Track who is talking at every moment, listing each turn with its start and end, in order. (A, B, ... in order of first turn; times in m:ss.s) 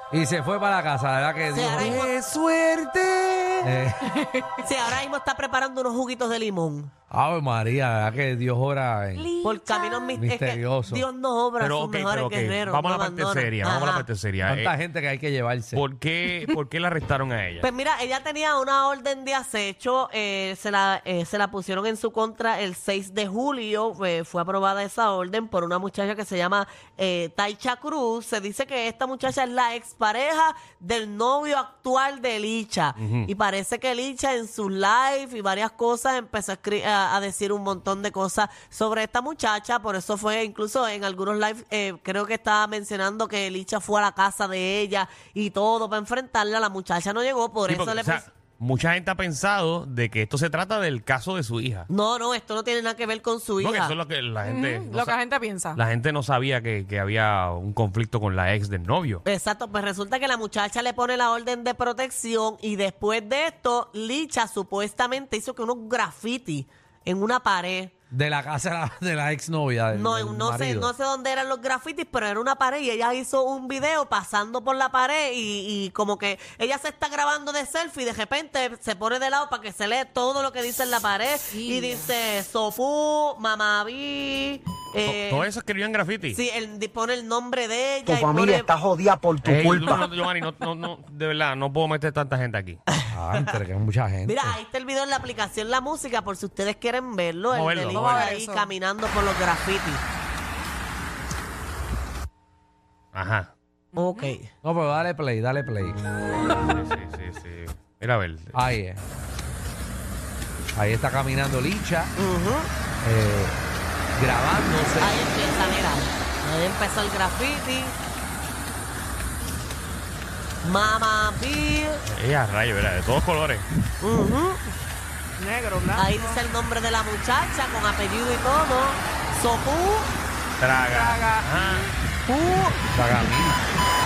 0:00.1-0:02.1 A
0:01.5-0:02.1 B
0:01.6-0:03.6 C
0:03.6-0:04.0 A
0:04.1-0:04.6 D
0:04.6-0:06.9 B
0:07.1-0:09.3 A
0:09.4-0:09.9 D
0:09.4-0:14.0 B
0:10.2-0:11.0 A
0:11.6-0:14.7 C
0:14.4-0:15.8 A
0:15.7-0:17.7 C
0:17.6-0:48.2 B
0:33.0-0:33.3 C
0:47.7-0:51.9 C
0:51.9-0:54.0 B
0:53.6-0:55.2 C
0:54.4-0:55.8 D
0:55.8-0:59.2 C
0:59.2-1:07.9 B
1:08.1-1:10.9 A
1:09.9-1:25.5 B
1:21.5-1:22.1 D
1:25.0-1:26.4 C
1:26.3-1:28.7 B
1:28.0-1:30.1 E
1:29.4-1:32.8 C
1:33.1-1:34.6 A
1:34.3-1:40.0 B
1:37.5-1:38.2 C
1:37.9-1:38.7 D
1:43.1-1:43.5 C
1:44.0-1:44.4 D
1:44.0-1:44.5 B
1:44.6-1:46.0 A
1:46.6-1:48.6 C
1:48.5-1:49.0 A
1:50.8-1:52.1 A
1:52.2-1:52.7 B
1:53.0-1:53.6 A
1:54.2-1:55.2 A
1:55.0-1:57.9 B
2:00.6-2:02.0 B
2:02.1-2:03.6 C
2:04.0-2:04.6 B
2:05.4-2:06.4 D
2:05.9-2:10.1 B
2:10.6-2:11.9 C
2:10.8-2:11.9 D
2:12.3-2:12.8 B
2:12.9-2:13.6 A